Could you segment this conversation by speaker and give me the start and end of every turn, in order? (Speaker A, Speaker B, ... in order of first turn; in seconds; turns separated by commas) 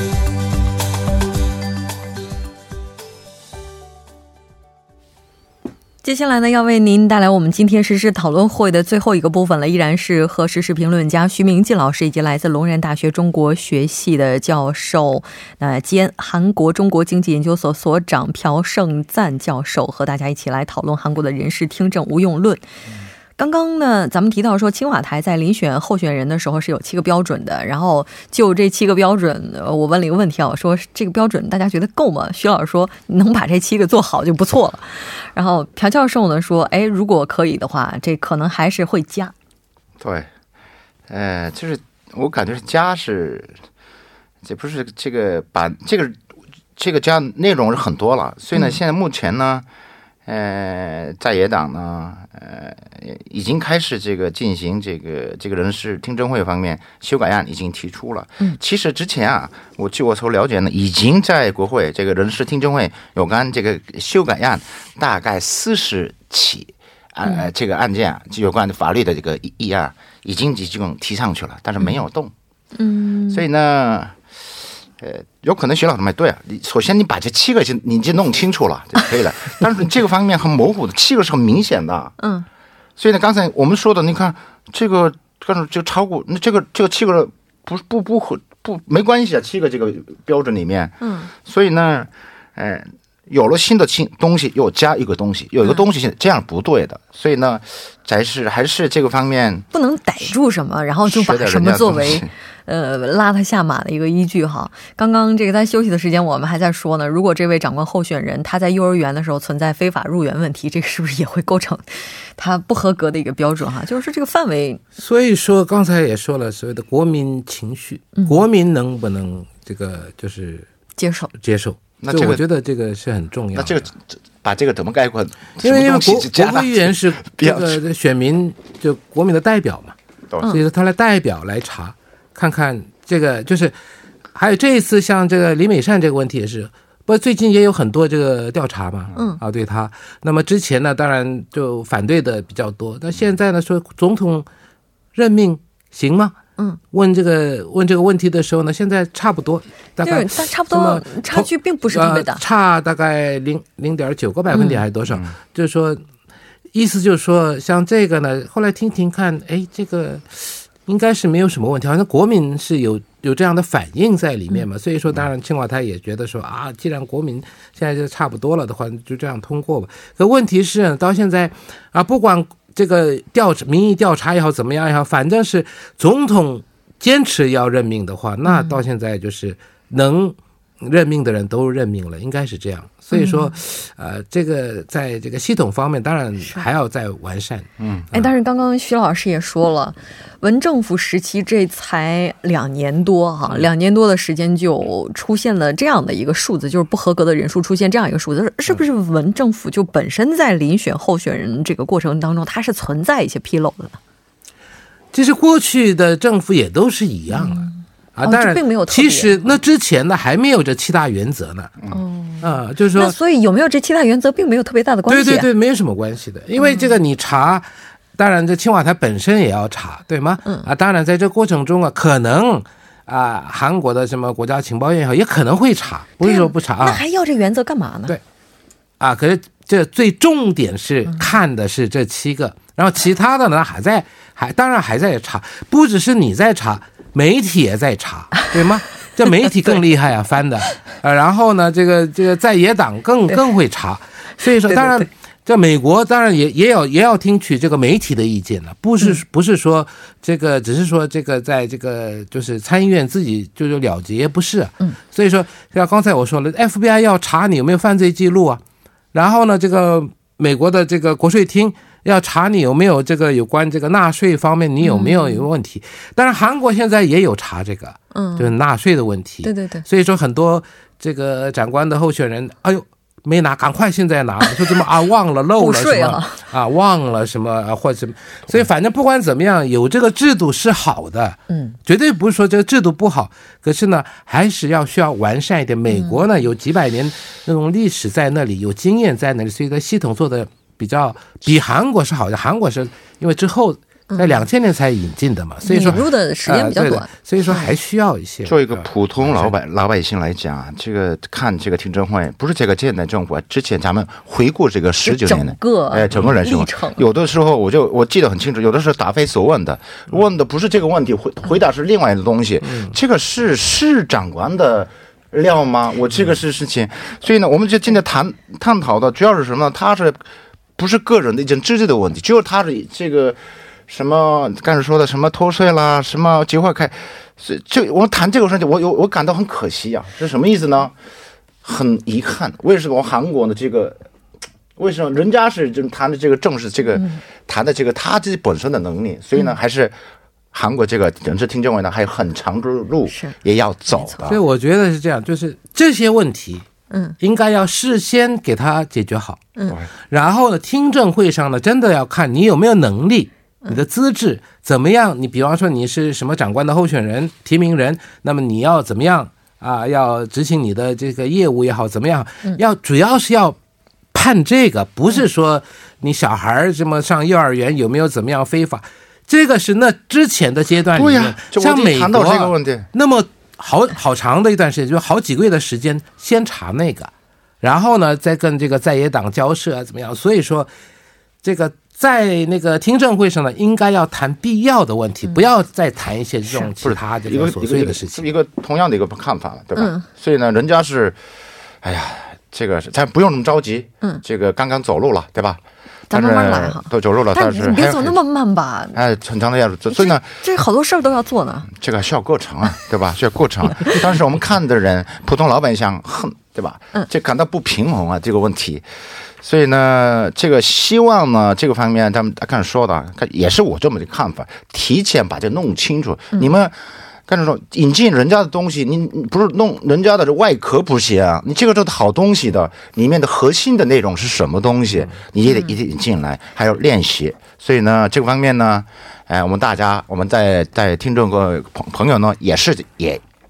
Speaker A: 6.0-22.6, Speaker A: 23.4-39.3, Speaker B: 40.0-40.3, Speaker B: 41.1-43.6, Speaker B: 44.4-46.2, Speaker B: 46.8-49.6, Speaker B: 50.3-72.3, Speaker A: 72.8-73.4, Speaker B: 73.3-74.2, Speaker B: 75.0-82.2, Speaker A: 82.2-82.5, Speaker B: 83.0-99.7, Speaker A: 91.0-91.3, Speaker A: 99.7-114.8, Speaker B: 101.1-102.3, Speaker C: 115.0-120.7, Speaker A: 118.2-118.4, Speaker A: 121.0-121.3, Speaker C: 121.4-123.9, Speaker B: 122.0-122.4, Speaker B: 123.5-127.8, Speaker C: 125.6-129.9, Speaker C: 130.5-133.8, Speaker C: 134.3-144.5, Speaker C: 145.2-146.4, Speaker C: 146.9-156.0, Speaker A: 150.0-152.4, Speaker A: 154.5-154.8, Speaker C: 156.7-188.3, Speaker A: 178.5-178.8, Speaker A: 183.1-183.6, Speaker B: 187.8-188.1, Speaker A: 188.1-204.0, Speaker C: 205.1-211.8, Speaker A: 207.3-209.5, Speaker A: 211.9-215.5, Speaker C: 212.4-213.2, Speaker C: 215.1-227.0, Speaker A: 216.6-216.9, Speaker A: 226.2-228.2, Speaker C: 229.0-258.6, Speaker A: 244.7-245.1, Speaker C: 259.1-299.5, Speaker A: 264.8-265.4, Speaker A: 268.1-268.5, Speaker A: 269.4-269.9, Speaker A: 274.5-274.8, Speaker A: 275.6-276.4, Speaker A: 281.5-281.8, Speaker A: 285.9-286.2, Speaker A: 294.1-294.4, Speaker A: 295.6-297.7, Speaker B: 298.4-320.2, Speaker A: 305.0-307.0, Speaker C: 312.6-312.9, Speaker B: 320.8-330.9, Speaker B: 331.6-334.0, Speaker B: 334.8-340.0, Speaker A: 336.9-337.2, Speaker B: 340.5-344.4, Speaker A: 343.1-343.4, Speaker A: 343.9-344.2, Speaker C: 344.3-346.7, Speaker A: 346.9-347.2, Speaker C: 347.2-349.4, Speaker C: 350.1-363.6, Speaker C: 364.1-377.1, Speaker B: 370.9-372.9, Speaker C: 377.6-380.7, Speaker C: 381.4-388.3, Speaker B: 386.8-391.2, Speaker A: 389.8-390.1, Speaker B: 391.8-398.2, Speaker A: 396.1-399.0, Speaker B: 398.9-400.4, Speaker A: 399.9-401.7, Speaker B: 401.7-433.2, Speaker A: 425.5-425.8